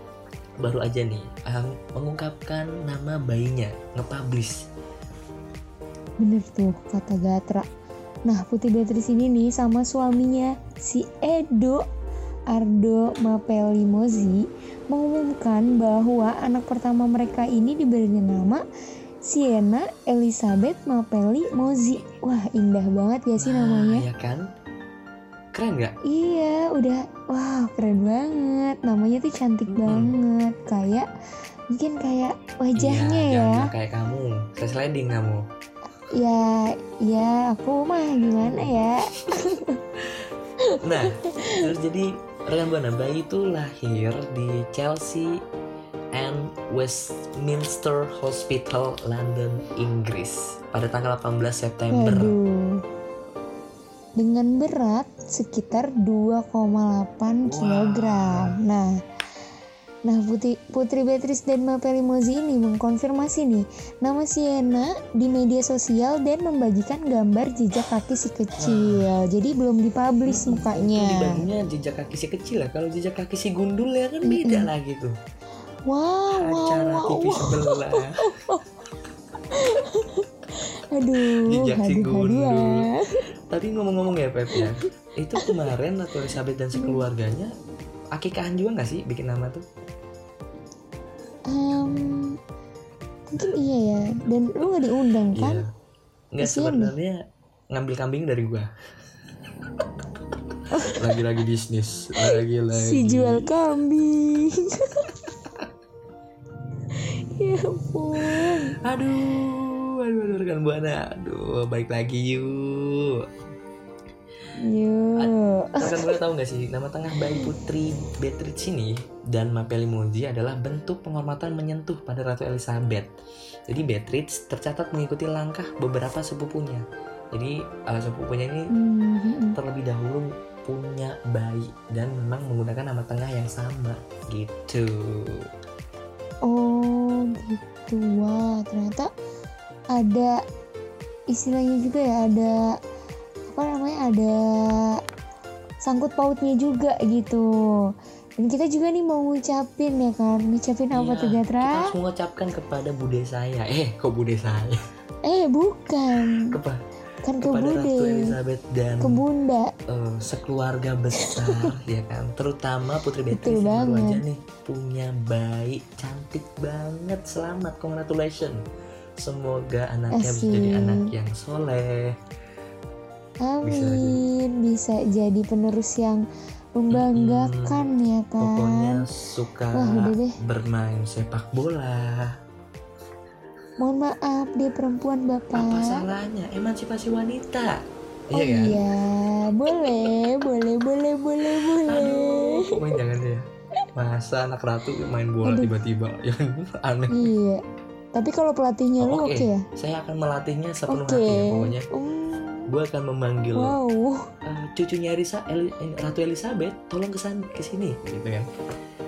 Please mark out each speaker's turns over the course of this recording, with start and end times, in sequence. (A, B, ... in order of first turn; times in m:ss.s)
0:00.6-0:04.7 A
0:06.2-0:07.7 B
0:08.2-0:11.8 B
0:12.5-0:18.6 B
0:19.2-0:24.0 B
0:23.4-0:24.4 A
0:25.5-0:25.9 A
0:26.1-0:31.1 B
0:29.7-0:30.1 A
0:31.7-0:33.7 B
0:32.8-0:35.4 A
0:36.1-0:39.8 B
0:38.4-0:38.7 A
0:40.7-0:41.7 B
0:40.8-0:45.4 A
0:46.1-0:52.4 A
0:51.9-0:52.8 B
0:54.2-0:58.9 B
0:57.4-0:58.6 A
1:00.1-1:11.4 B
1:08.6-1:09.1 A
1:10.2-1:15.2 A
1:14.2-1:14.7 B
1:15.9-1:18.6 B
1:16.3-1:18.3 A
1:19.5-1:23.2 B
1:21.2-1:22.8 A
1:23.5-1:27.5 A
1:25.4-1:25.7 B
1:26.8-1:27.0 B
1:28.1-1:29.6 A
1:31.5-1:32.4 B
1:33.3-1:35.6 B
1:35.3-1:35.7 A
1:36.3-1:37.2 A
1:36.4-1:36.9 B
1:37.7-1:38.7 A
1:40.7-1:41.0 B
1:40.9-1:43.5 A
1:42.2-1:45.1 B
1:47.0-1:48.8 B
1:48.2-1:53.2 A
1:54.6-1:56.2 B
1:55.2-2:03.1 A
2:03.7-2:08.7 A
2:08.7-2:09.6 B
2:09.5-2:15.5 A
2:16.4-2:19.1 B
2:19.9-2:20.4 B
2:21.3-2:22.8 B
2:23.5-2:25.0 B
2:25.8-2:27.5 B
2:28.4-2:31.9 B
2:30.9-2:34.8 A
2:35.2-2:36.5 B
2:36.3-2:36.8 A
2:37.2-2:38.3 B
2:37.4-2:39.2 A
2:39.0-2:39.7 B
2:39.9-2:48.6 A
2:41.2-2:41.7 B
2:43.3-2:44.2 B
2:49.2-2:52.2 A
2:50.1-2:51.1 B
2:53.4-2:56.2 B
2:53.6-2:54.2 A
2:56.8-2:59.0 B
2:56.9-2:57.9 A
2:58.4-3:02.4 A
2:59.7-3:00.4 B
3:03.8-3:06.0 B
3:05.5-3:08.8 A
3:08.3-3:13.0 B
3:11.5-3:17.3 A
3:15.4-3:15.7 B
3:17.1-3:17.6 B
3:18.2-3:19.7 B
3:19.0-3:21.9 A
3:20.9-3:22.7 B
3:22.7-3:23.8 A
3:23.6-3:24.3 B
3:24.4-3:28.5 A